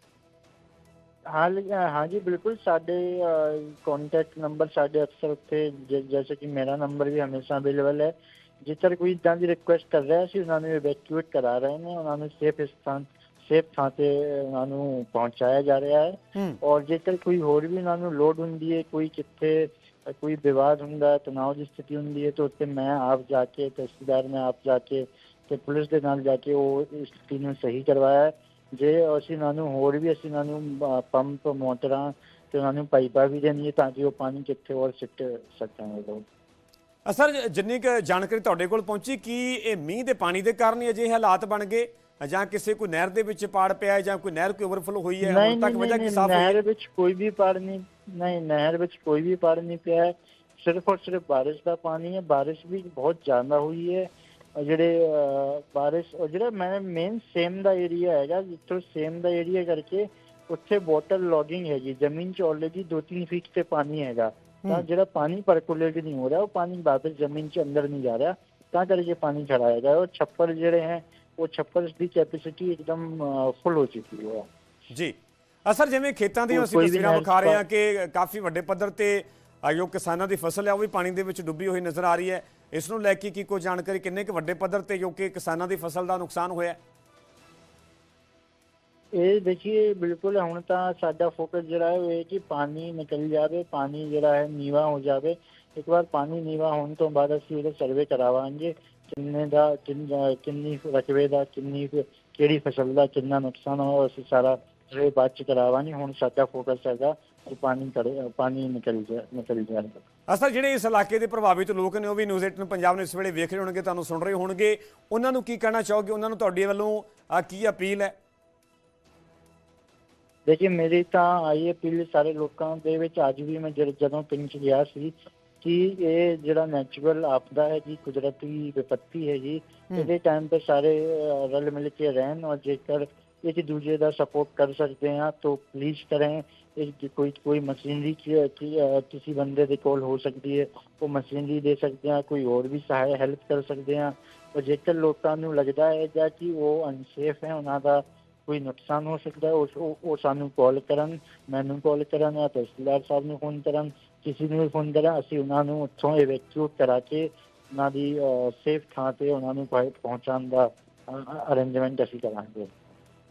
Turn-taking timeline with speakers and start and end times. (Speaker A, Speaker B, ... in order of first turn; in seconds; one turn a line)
Speaker A: 1.3-36.2
Speaker B: 37.0-46.6
Speaker A: 45.2-74.5
Speaker B: 74.9-86.8
Speaker A: 76.5-77.6
Speaker A: 89.1-110.0
Speaker B: 110.3-118.1
Speaker A: 120.5-162.7